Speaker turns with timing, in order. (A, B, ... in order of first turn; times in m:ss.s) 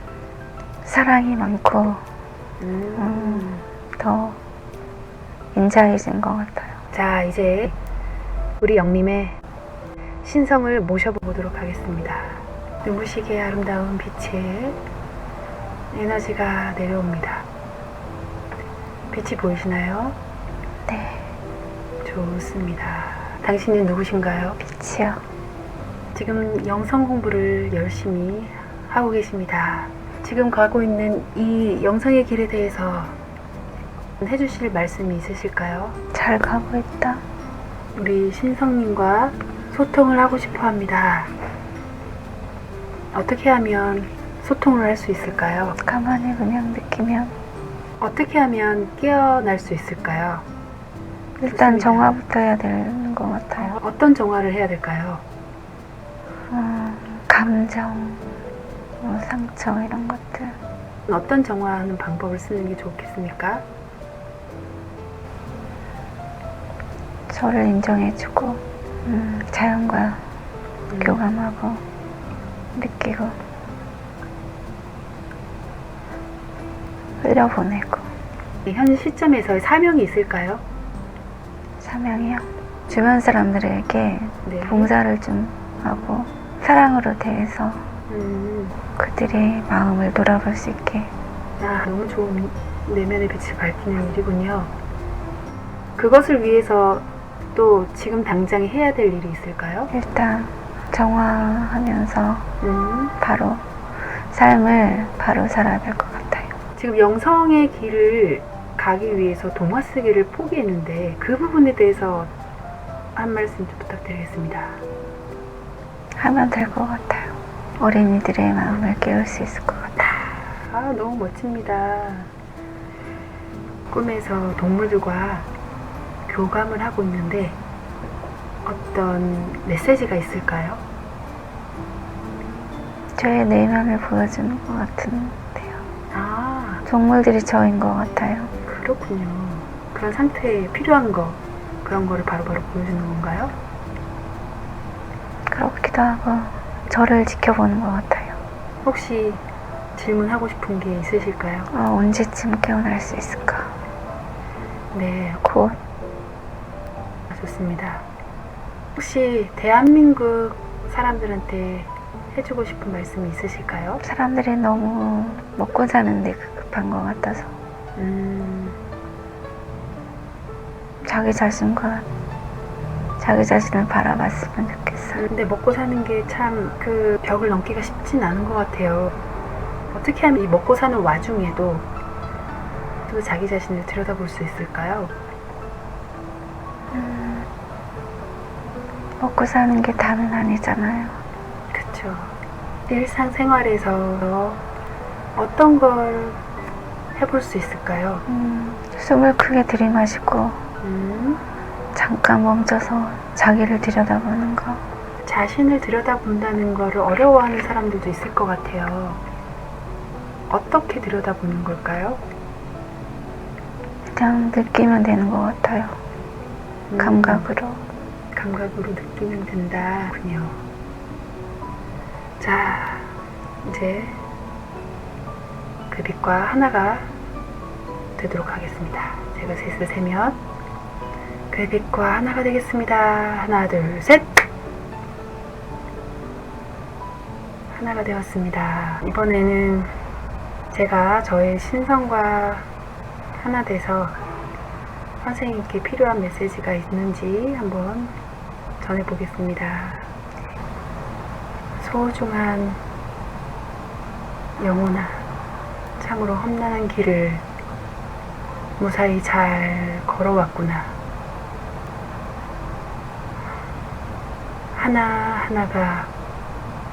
0:00.8-0:02.1 A
0:02.6-0:03.6 B
0:03.0-0:04.4 A
0:05.5-0:06.8 A
0:06.9-0:07.8 B
0:08.6-0:09.4 B
0:10.2-0:14.8 B
0:15.9-0:17.5 B
0:19.0-0:20.2 B
0:20.9-0:21.3 A
0:22.0-0:24.6 B
0:24.6-0:25.2 A
0:26.2-0:33.2 B
0:34.2-0:36.0 B
0:36.1-0:37.2 A
0:38.0-0:41.3 B
0:43.1-0:45.8 B
0:45.8-0:47.4 A
0:48.0-0:50.4 B
0:51.4-0:53.7 A
0:51.4-0:52.2 B
0:53.6-0:55.2 B
0:56.5-0:58.2 A
0:59.0-1:00.6 A
1:01.1-1:03.6 B
1:07.3-1:10.2 A
1:10.9-1:11.2 B
1:11.0-1:11.8 A
1:12.8-1:13.4 A
1:17.2-1:18.1 A
1:18.7-1:20.6 B
1:21.8-1:27.9 A
1:24.4-1:24.9 B
1:28.1-1:28.8 B
1:29.0-1:31.1 A
1:31.6-1:34.7 B
1:36.0-1:39.9 B
1:39.9-1:42.5 A
1:42.6-1:43.2 B
1:43.2-1:46.5 A
1:46.8-1:52.3 B
1:53.2-1:54.8 B
1:56.2-2:00.0 A
2:00.0-2:02.3 B
2:03.9-2:05.5 B
2:06.3-2:07.6 B
2:08.6-2:10.8 B
2:13.2-2:15.8 A
2:16.1-2:16.8 B
2:16.9-2:18.5 A
2:18.6-2:23.6 B
2:25.5-2:28.4 A
2:28.8-2:29.4 B
2:30.0-2:31.7 B
2:31.7-2:33.8 A
2:34.9-2:35.4 B
2:35.4-2:35.8 A
2:37.3-2:38.1 B
2:39.0-2:44.0 B
2:44.0-2:47.6 A
2:48.0-2:48.8 B
2:51.0-2:52.1 A
2:53.2-2:55.2 A
2:55.2-2:59.2 B
2:59.9-3:01.9 B
3:03.1-3:05.1 B
3:06.9-3:07.5 A
3:09.2-3:11.2 A
3:11.7-3:12.4 B
3:12.9-3:14.6 B
3:15.4-3:16.4 B
3:17.2-3:18.2 B
3:18.3-3:20.6 A
3:20.8-3:21.4 B
3:22.0-3:24.8 A
3:25.2-3:29.2 B
3:30.5-3:32.2 B
3:34.1-3:36.0 A
3:36.9-3:37.5 B
3:37.0-3:37.8 A
3:38.4-3:40.6 B
3:42.4-3:44.2 B
3:45.9-3:47.1 B
3:48.2-3:50.4 B
3:51.5-3:54.4 B
3:57.7-3:59.9 B
4:00.7-4:02.7 B
4:03.4-4:04.2 B
4:05.2-4:08.2 B
4:08.8-4:10.1 B
4:11.8-4:12.8 B
4:14.6-4:15.2 B
4:16.0-4:17.4 B
4:18.8-4:21.0 B
4:24.8-4:26.1 B